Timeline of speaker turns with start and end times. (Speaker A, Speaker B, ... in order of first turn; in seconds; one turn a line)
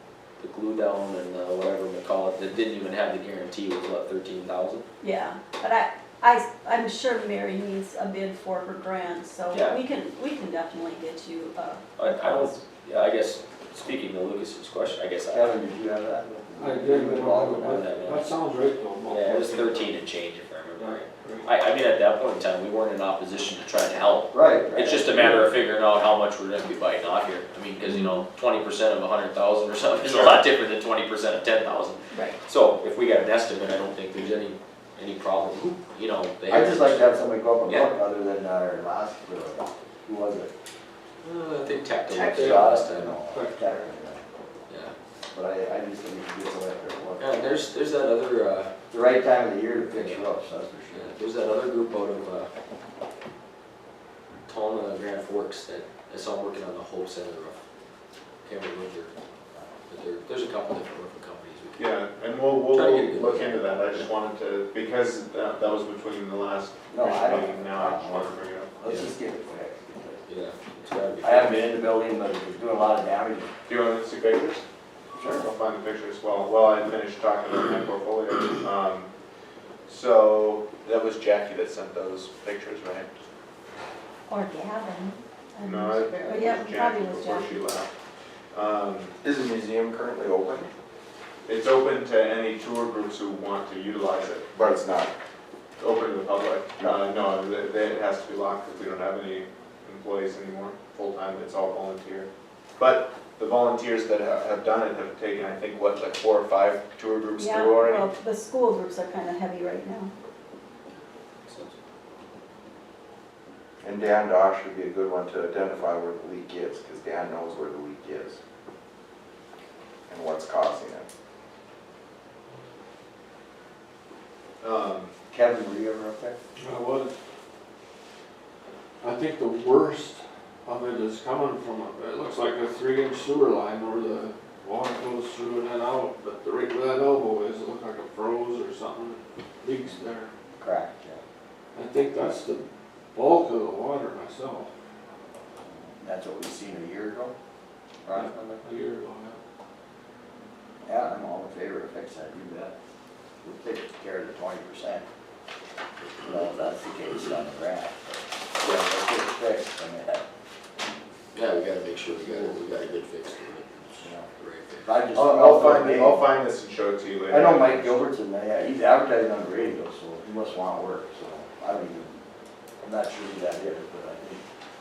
Speaker A: 0.4-4.8
Speaker B: 5.0-12.6
Speaker A: 9.5-9.8
Speaker A: 12.0-15.6
Speaker C: 15.2-18.1
Speaker D: 16.6-19.9
Speaker A: 17.7-18.2
Speaker A: 19.1-37.9
Speaker D: 20.8-21.5
Speaker C: 24.3-25.2
Speaker D: 25.1-25.4
Speaker B: 27.8-28.2
Speaker E: 30.0-30.4
Speaker B: 32.1-32.4
Speaker C: 36.5-40.5
Speaker A: 41.2-43.1
Speaker C: 42.1-44.2
Speaker D: 42.1-43.7
Speaker A: 44.7-44.9
Speaker C: 45.3-47.6
Speaker A: 47.2-48.7
Speaker C: 48.9-51.1
Speaker A: 49.9-50.3
Speaker A: 50.9-52.5
Speaker A: 54.5-57.6
Speaker A: 58.4-59.1
Speaker A: 59.9-61.9
Speaker E: 61.8-68.7
Speaker A: 62.7-64.1
Speaker C: 66.9-70.2
Speaker A: 68.8-69.1
Speaker A: 70.3-71.7
Speaker C: 71.2-73.5
Speaker E: 73.7-74.6
Speaker C: 75.1-75.5
Speaker E: 75.3-79.1
Speaker E: 79.8-83.1
Speaker B: 84.3-87.6
Speaker E: 85.6-87.9
Speaker E: 88.5-89.1
Speaker F: 89.2-90.7
Speaker E: 91.5-94.5
Speaker F: 94.5-95.1
Speaker E: 95.8-108.1
Speaker B: 107.4-110.1
Speaker A: 110.9-111.7
Speaker F: 113.8-118.4
Speaker F: 120.1-121.1
Speaker E: 124.6-125.1
Speaker C: 125.3-126.4
Speaker D: 126.6-127.1
Speaker D: 129.0-140.3
Speaker C: 140.6-141.2
Speaker D: 141.7-144.7
Speaker C: 145.7-147.3
Speaker C: 148.0-148.7
Speaker D: 148.1-149.4
Speaker C: 150.8-152.7
Speaker C: 153.4-155.1
Speaker C: 156.2-160.2
Speaker A: 161.3-164.9
Speaker C: 164.0-164.3
Speaker C: 164.8-166.2
Speaker E: 165.1-168.0
Speaker C: 167.3-172.2
Speaker C: 172.8-174.4